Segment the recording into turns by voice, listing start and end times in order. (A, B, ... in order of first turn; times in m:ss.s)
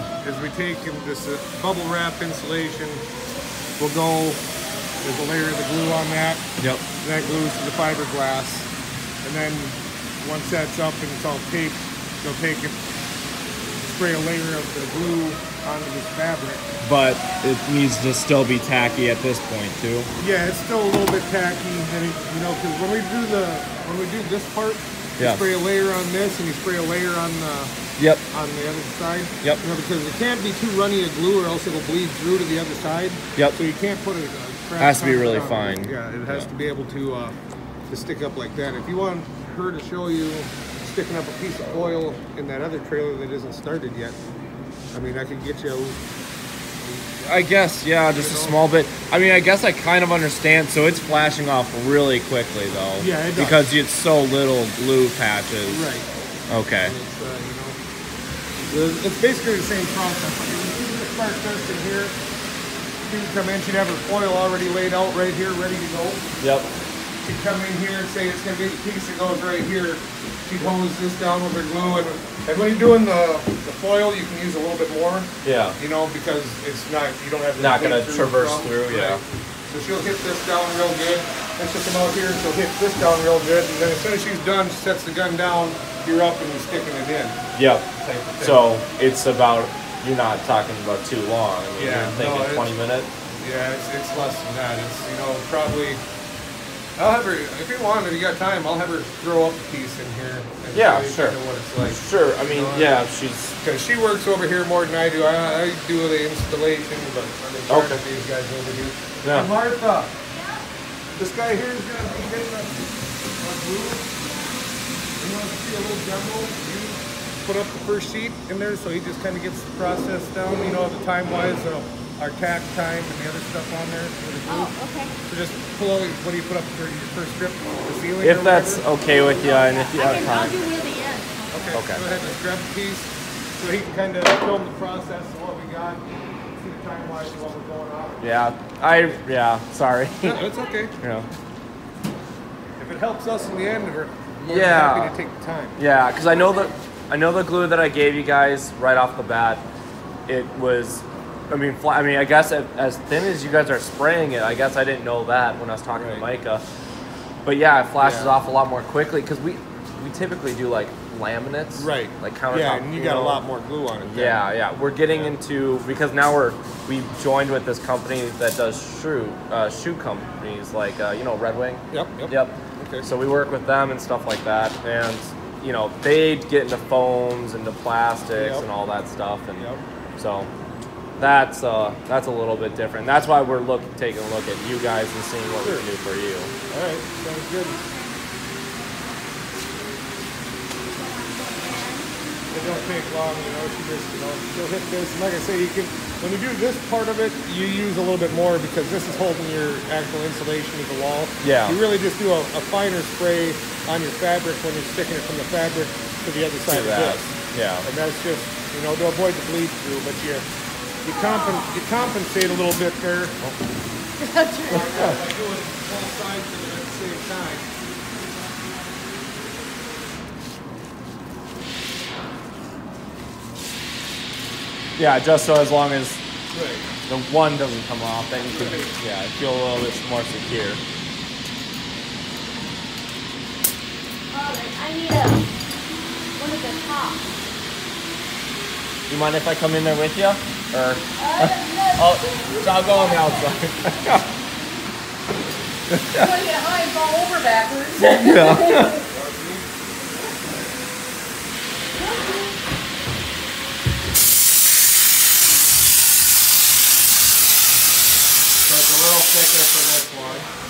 0:00.2-0:03.0 A
0:03.8-0:04.4 A
0:05.0-0:06.4 A
0:07.0-0:08.7 A
0:09.2-0:12.8 A
0:13.8-0:16.6 A
0:16.8-0:20.1 B
0:20.2-0:27.8 A
0:25.2-0:25.4 B
0:28.0-0:28.2 B
0:28.3-0:37.4 A
0:34.8-0:36.5 B
0:37.9-0:44.2 A
0:44.9-0:46.0 A
0:46.8-0:47.2 A
0:47.2-0:55.8 B
0:48.1-0:48.7 A
0:53.0-0:53.6 A
0:55.6-0:56.1 A
0:56.5-0:56.9 B
0:56.8-0:57.8 A
0:58.6-1:02.2 A
1:03.0-1:06.3 A
1:06.4-1:06.7 B
1:07.2-1:27.4 A
1:15.4-1:15.8 B
1:17.6-1:19.2 B
1:27.6-1:27.8 B
1:28.0-1:28.7 A
1:28.4-1:33.1 B
1:31.8-1:32.7 A
1:33.4-1:36.0 A
1:37.0-1:43.0 A
1:40.7-1:43.6 B
1:43.6-1:50.1 A
1:47.7-1:48.0 B
1:49.2-1:49.5 B
1:50.3-1:50.6 C
1:51.2-1:54.1 A
1:54.2-1:54.6 C
1:55.2-2:04.7 A
2:04.4-2:05.1 C
2:05.3-2:08.8 A
2:08.2-2:10.6 B
2:09.2-2:12.2 C
2:09.9-2:10.6 A
2:11.5-2:18.3 A
2:11.7-2:12.0 B
2:18.2-2:20.4 B
2:20.2-2:21.0 A
2:21.0-2:21.3 B
2:22.8-2:25.8 A
2:24.4-2:25.2 B
2:25.8-2:29.6 B
2:26.3-2:26.7 C
2:30.3-2:36.6 B
2:35.9-2:36.2 A
2:37.4-2:43.4 B
2:38.0-2:38.3 A
2:41.8-2:44.4 A
2:44.0-3:00.5 B
2:45.1-2:45.3 A
2:51.9-2:53.0 A
2:58.3-2:58.7 A
2:59.6-2:59.8 A
3:01.2-3:06.5 B
3:05.6-3:05.8 A
3:06.7-3:07.8 A
3:07.6-3:08.1 C
3:10.8-3:12.1 C
3:12.5-3:30.5 A
3:21.4-3:21.8 B
3:26.6-3:27.8 B
3:31.0-3:33.4 A
3:31.1-3:31.8 C
3:34.2-3:35.0 C
3:34.6-3:37.7 A
3:34.7-3:35.2 B
3:45.0-3:46.2 B
3:46.5-3:46.9 A
3:47.1-3:50.8 B
3:48.4-3:48.9 A
3:54.3-3:55.5 C
3:56.4-3:57.2 C
3:59.1-4:04.2 B
4:01.2-4:03.6 C
4:05.9-4:06.4 B
4:06.1-4:09.0 C
4:08.0-4:09.0 B
4:09.0-4:10.4 A
4:18.6-4:20.5 B